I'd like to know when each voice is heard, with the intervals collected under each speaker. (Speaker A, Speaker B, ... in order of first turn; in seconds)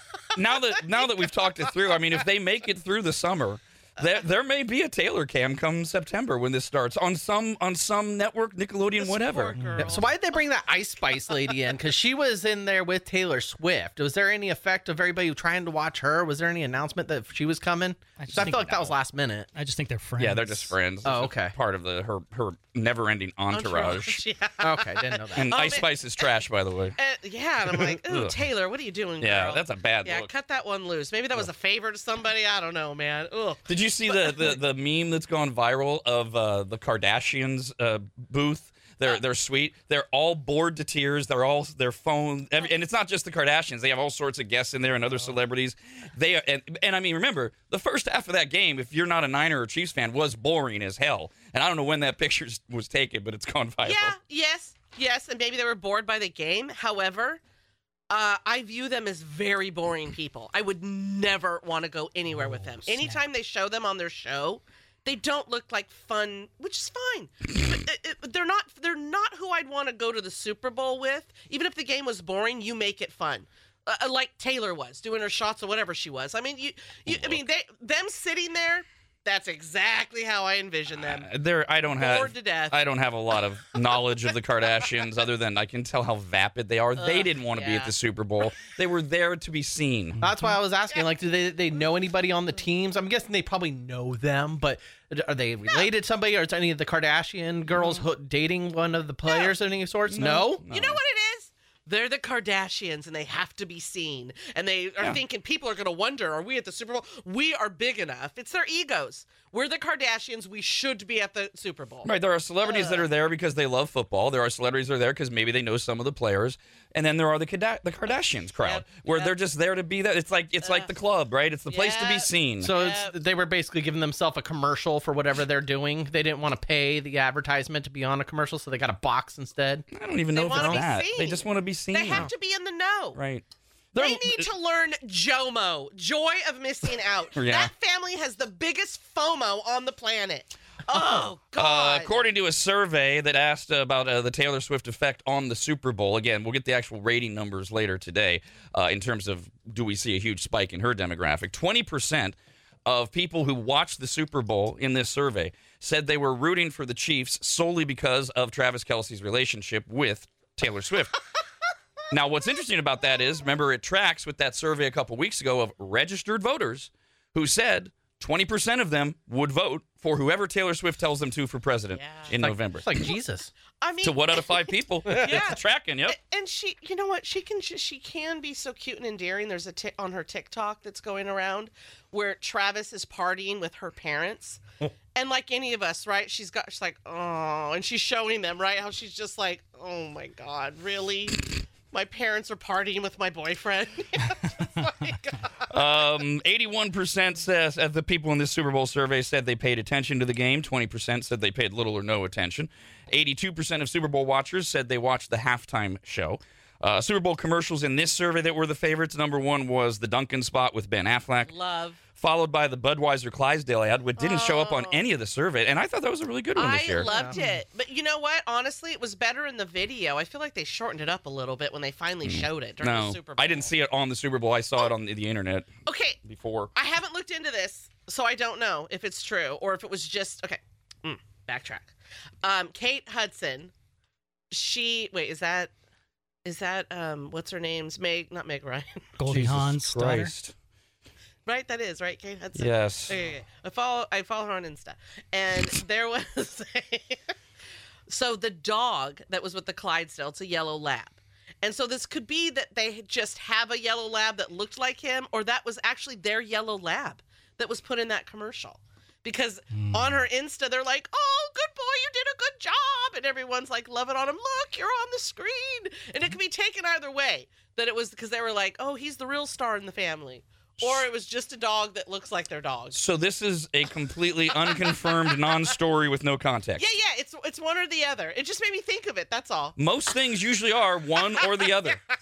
Speaker A: 0.3-9.6, 18.4-18.8, 20.2-24.2, 25.4-27.0, 27.8-28.4, 29.2-30.3, 33.7-54.1, 77.1-77.4, 81.0-90.2, 100.1-101.0, 112.0-122.7, 129.9-132.3, 133.2-134.5, 137.4-137.7, 141.6-161.2, 162.1-173.0, 174.0-176.2, 195.7-211.5, 212.2-217.1, 222.2-225.7, 226.2-226.7, 239.3-240.5, 242.6-243.1, 272.9-276.9, 279.8-282.0
Speaker B: 0.8-1.1, 9.0-10.1, 23.5-26.3, 27.0-34.6, 53.8-57.4, 58.1-81.3, 82.0-82.8, 87.0-87.9, 99.3-99.5, 100.7-112.1, 112.6-113.1, 118.6-119.3, 120.6-120.9, 121.7-123.2, 130.3-133.2, 133.9-142.2, 171.9-172.3, 173.8-174.5, 175.1-184.6, 185.2-195.5, 211.4-212.0, 214.2-215.0, 216.6-223.7, 225.9-226.2, 226.8-233.7, 234.5-235.7, 236.4-239.0, 241.5-247.3, 248.1-273.0, 274.7-275.1, 276.8-279.8
Speaker C: 9.6-10.0, 18.2-18.9, 19.6-20.7, 90.2-90.6, 239.2-240.3, 259.7-260.2
Speaker D: 9.8-19.5, 21.0-21.6, 24.6-25.6, 90.2-100.6, 122.6-129.9, 130.5-130.8, 172.4-173.5, 217.0-217.4